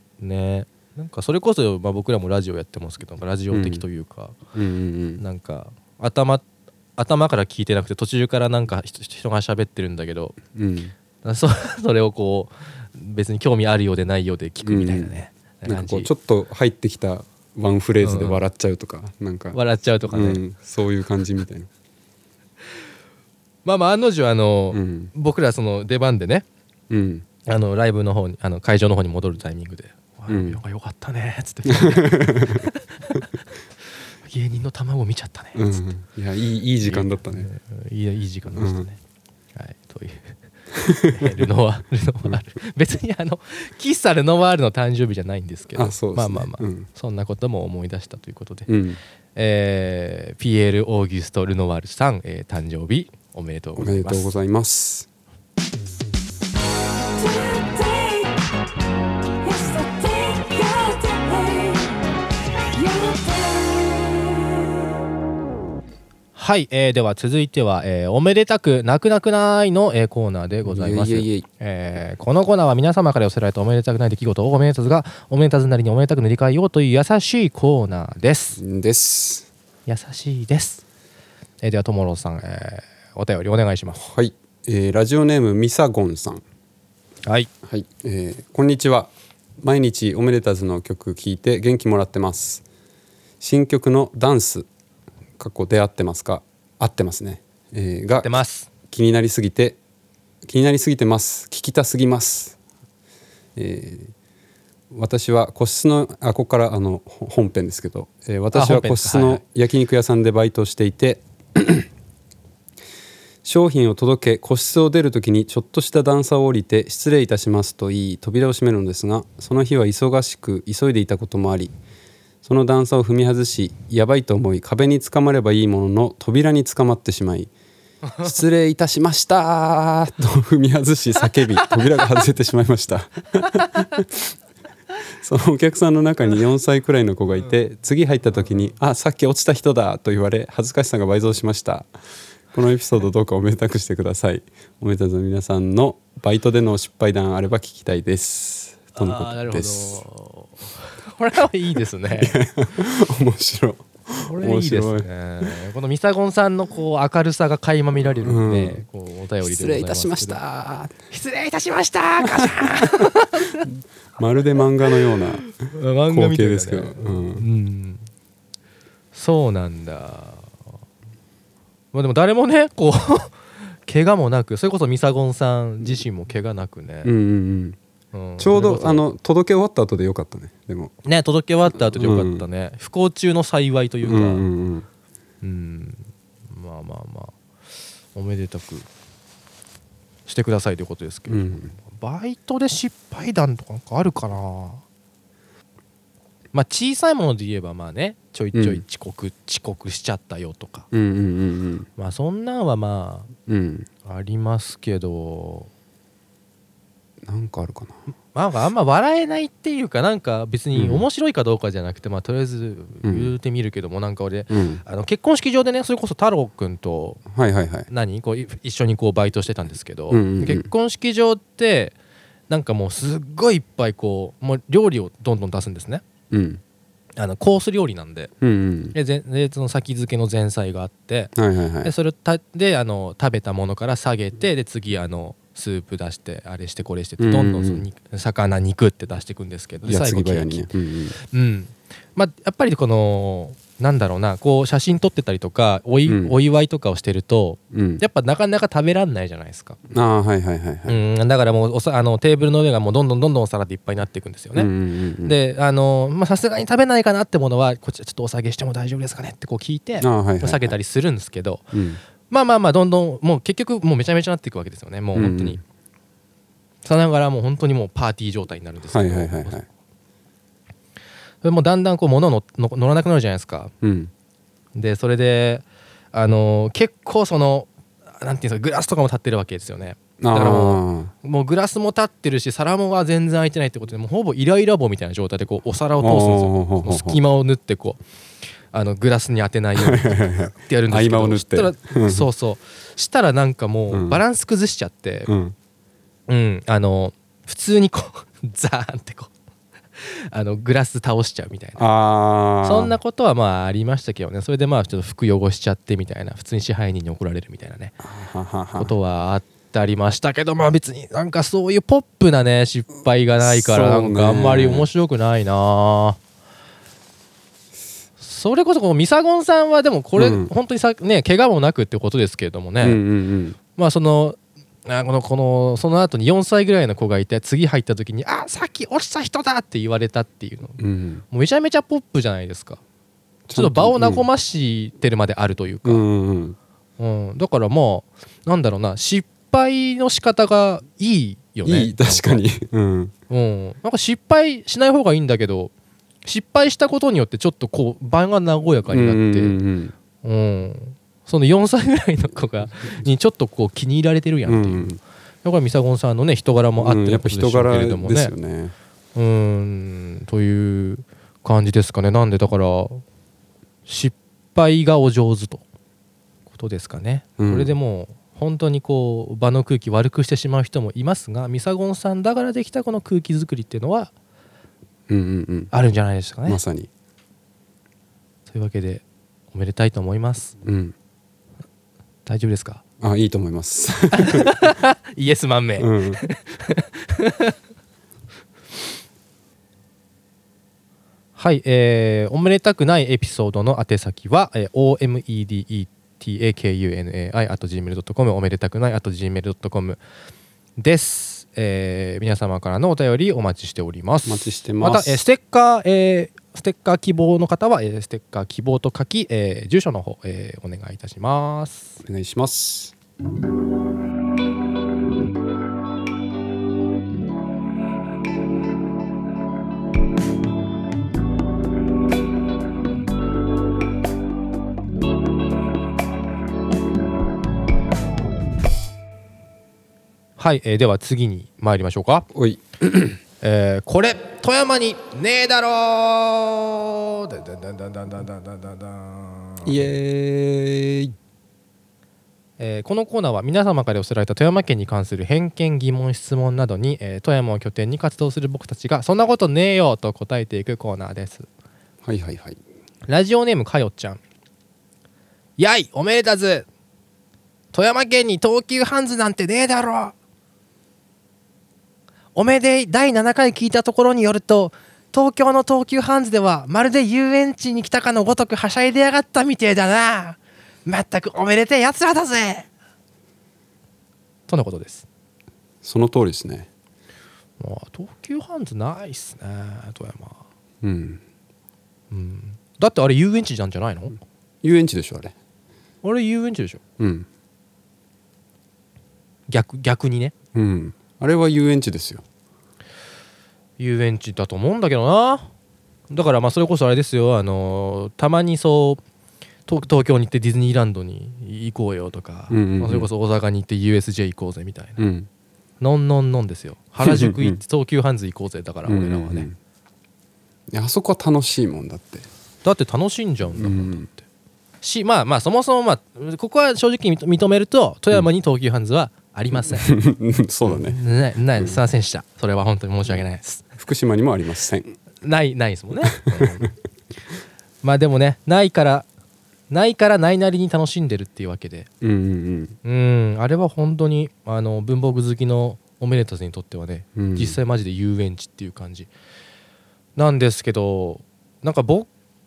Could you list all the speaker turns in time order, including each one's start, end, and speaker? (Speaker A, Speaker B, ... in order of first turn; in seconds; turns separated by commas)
Speaker A: 0.2-4.4, Speaker B: 3.5-3.8, Speaker B: 4.5-5.2, Speaker A: 5.2-6.4, Speaker A: 7.0-10.4, Speaker B: 10.5-10.9, Speaker A: 11.2-16.1, Speaker B: 14.6-15.1, Speaker B: 15.7-21.7, Speaker A: 18.0-18.4, Speaker A: 19.5-20.4, Speaker A: 23.6-26.4, Speaker B: 24.7-25.1, Speaker B: 26.9-27.2, Speaker A: 27.5-33.3, Speaker B: 30.3-30.6, Speaker B: 31.7-32.7, Speaker A: 34.2-35.8, Speaker B: 35.5-37.5, Speaker A: 36.8-39.0, Speaker B: 38.5-38.9, Speaker A: 39.5-40.3, Speaker B: 40.7-41.4, Speaker A: 41.1-48.7, Speaker B: 45.7-46.9, Speaker B: 48.7-49.0, Speaker A: 49.4-54.3, Speaker B: 53.8-55.1, Speaker C: 57.1-58.4, Speaker C: 59.4-62.0, Speaker C: 62.7-64.3, Speaker A: 66.3-78.6, Speaker B: 70.6-71.5, Speaker B: 78.6-79.5, Speaker A: 79.9-80.8, Speaker A: 81.6-84.0, Speaker B: 84.0-86.4, Speaker B: 87.6-92.6, Speaker B: 93.4-94.7, Speaker B: 95.4-99.8, Speaker A: 98.2-98.7, Speaker B: 100.4-102.6, Speaker B: 103.5-104.1, Speaker B: 104.9-111.9, Speaker A: 108.5-109.4, Speaker B: 113.4-121.7, Speaker B: 122.4-127.5, Speaker B: 128.2-134.1, Speaker B: 135.2-141.9, Speaker B: 142.5-150.0, Speaker A: 148.9-152.4, Speaker B: 152.2-155.5, Speaker A: 154.2-160.4, Speaker B: 158.2-158.8, Speaker B: 159.4-160.9, Speaker A: 161.1-163.7, Speaker B: 162.2-165.5, Speaker A: 165.1-168.1, Speaker B: 166.1-167.4, Speaker A: 169.1-170.5, Speaker A: 171.9-177.1, Speaker B: 177.0-177.8, Speaker A: 178.1-179.0, Speaker B: 178.4-180.9, Speaker A: 181.0-184.4, Speaker B: 181.9-182.4, Speaker B: 184.0-184.9, Speaker A: 185.4-187.3, Speaker A: 188.1-188.9, Speaker A: 190.3-194.8, Speaker B: 191.3-191.7, Speaker A: 196.5-200.9, Speaker B: 198.5-198.8, Speaker B: 200.9-201.9, Speaker A: 202.0-203.3, Speaker B: 203.5-203.9, Speaker A: 204.0-205.7, Speaker B: 207.2-207.9, Speaker A: 208.3-217.2, Speaker B: 210.7-211.0, Speaker B: 213.0-213.3, Speaker B: 214.5-214.8, Speaker B: 217.3-217.9, Speaker A: 217.9-221.9, Speaker B: 220.1-220.7, Speaker A: 222.5-226.0, Speaker B: 226.3-226.6, Speaker A: 227.2-228.3, Speaker B: 228.4-228.9, Speaker A: 228.9-249.8, Speaker B: 231.3-231.9, Speaker B: 237.2-237.8, Speaker B: 239.8-241.1, Speaker B: 246.1-246.3, Speaker B: 247.7-248.0, Speaker B: 249.9-251.0, Speaker A: 250.9-254.7, Speaker B: 254.5-255.3, Speaker A: 255.2-261.7, Speaker B: 260.0-260.8, Speaker B: 261.7-262.0, Speaker A: 262.3-265.6, Speaker B: 265.1-265.6, Speaker A: 266.8-269.6, Speaker B: 268.9-269.6, Speaker A: 271.4-273.7, Speaker B: 273.8-274.1, Speaker A: 274.7-288.0, Speaker B: 280.2-281.1, Speaker B: 286.0-287.2, Speaker A: 288.7-295.3, Speaker B: 289.8-292.3, Speaker B: 293.9-294.2, Speaker B: 295.3-295.5, Speaker A: 296.3-299.3, Speaker A: 300.0-301.8, Speaker B: 301.8-303.0, Speaker A: 302.6-307.9, Speaker B: 308.0-308.9, Speaker A: 308.7-316.2, Speaker B: 313.4-314.9, Speaker A: 318.2-323.0, Speaker B: 320.2-320.5, Speaker B: 322.8-323.6, Speaker A: 323.8-330.8, Speaker B: 330.8-331.2, Speaker A: 331.3-332.8, Speaker B: 333.5-334.3, Speaker A: 333.5-336.0, Speaker B: 335.8-336.6, Speaker A: 337.0-342.4, Speaker B: 341.6-343.1, Speaker A: 343.3-345.7, Speaker A: 346.2-349.6, Speaker B: 348.9-349.9, Speaker A: 350.2-358.3, Speaker B: 354.5-355.0, Speaker B: 356.8-358.7, Speaker A: 359.1-363.0, Speaker A: 363.9-365.6, Speaker A: 366.5-374.1, Speaker B: 367.4-367.7, Speaker B: 375.1-375.7, Speaker A: 375.7-376.6, Speaker B: 376.4-376.9, Speaker A: 378.5-380.5, Speaker B: 380.6-380.9, Speaker A: 382.2-382.8, Speaker B: 383.0-384.5, Speaker A: 384.1-387.5, Speaker B: 385.8-386.2, Speaker A: 391.4-400.0, Speaker A: 400.8-412.0, Speaker B: 404.2-405.2, Speaker B: 412.0-412.9, Speaker A: 430.4-432.3, Speaker B: 432.3-433.2, Speaker A: 433.4-439.9, Speaker B: 439.6-441.1, Speaker A: 442.6-451.5, Speaker B: 452.0-452.6, Speaker A: 453.1-454.2, Speaker A: 455.6-456.7, Speaker A: 457.7-460.1, Speaker A: 462.3-472.7, Speaker A: 474.5-475.1, Speaker B: 475.8-476.7, Speaker A: 477.6-480.4, Speaker B: 480.8-481.2, Speaker A: 482.1-484.2, Speaker B: 484.6-485.3, Speaker A: 486.0-486.8, Speaker B: 487.0-487.3, Speaker A: 489.5-490.3, Speaker B: 490.5-492.2, Speaker A: 493.8-495.5, Speaker A: 496.1-499.0, Speaker A: 499.7-505.0, Speaker B: 502.5-503.1, Speaker B: 505.0-505.3, Speaker A: 505.8-509.5, Speaker B: 507.0-507.6, Speaker B: 508.9-509.5, Speaker B: 510.7-512.3, Speaker A: 512.6-514.2, Speaker B: 513.5-514.1, Speaker A: 514.8-519.9, Speaker B: 519.6-521.0, Speaker A: 520.6-523.6, Speaker B: 523.8-525.0, Speaker A: 525.2-526.7, Speaker B: 526.3-526.7, Speaker A: 527.8-529.1, Speaker A: 529.7-531.9, Speaker B: 532.0-532.8, Speaker A: 532.8-539.1, Speaker B: 537.1-537.6, Speaker A: 540.2-542.1